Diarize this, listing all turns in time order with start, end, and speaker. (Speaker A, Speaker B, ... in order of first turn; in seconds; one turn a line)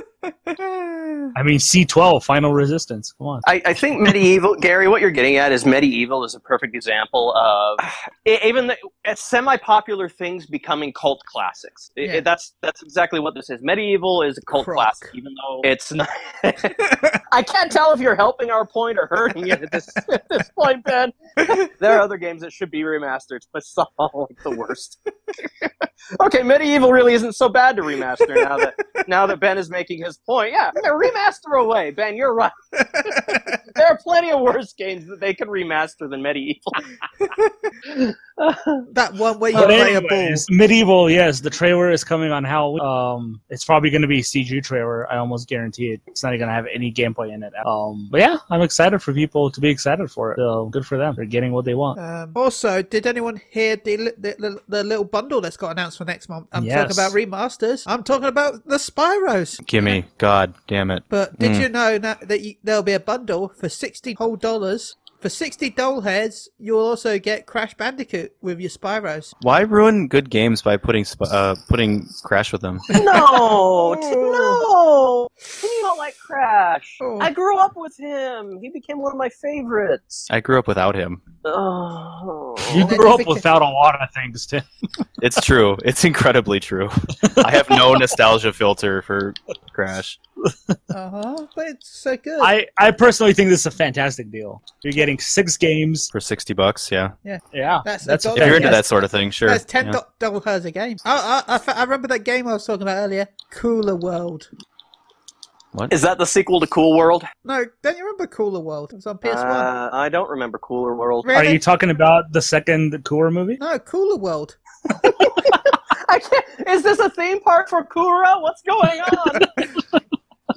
Speaker A: 0.3-1.3
Speaker B: 1.4-3.5
Speaker C: 3.5-36.9
Speaker A: 14.6-15.1
Speaker A: 16.8-17.2
Speaker A: 32.8-33.6
Speaker A: 37.2-37.5
Speaker C: 37.9-38.9
Speaker A: 38.9-40.5
Speaker B: 39.5-52.0
Speaker A: 52.0-60.0
Speaker B: 56.5-57.1
Speaker D: 59.6-61.7
Speaker A: 61.1-69.3
Speaker D: 69.4-72.9
Speaker A: 72.9-74.6
Speaker C: 72.9-80.3
Speaker A: 77.0-77.3
Speaker D: 80.3-81.2
Speaker C: 81.5-82.9
Speaker B: 82.7-84.6
Speaker A: 82.8-83.5
Speaker D: 85.2-90.2
Speaker B: 87.3-87.8
Speaker B: 90.5-90.8
Speaker A: 90.9-92.5
Speaker B: 92.4-96.1
Speaker D: 96.1-97.2
Speaker A: 97.2-98.9
Speaker B: 97.5-98.8
Speaker D: 98.4-100.0
Speaker A: 99.5-104.5
Speaker C: 105.9-107.3
Speaker A: 107.5-109.7
Speaker C: 109.2-111.3
Speaker A: 111.2-111.6
Speaker B: 111.3-113.6
Speaker A: 113.6-114.6
Speaker C: 115.0-119.7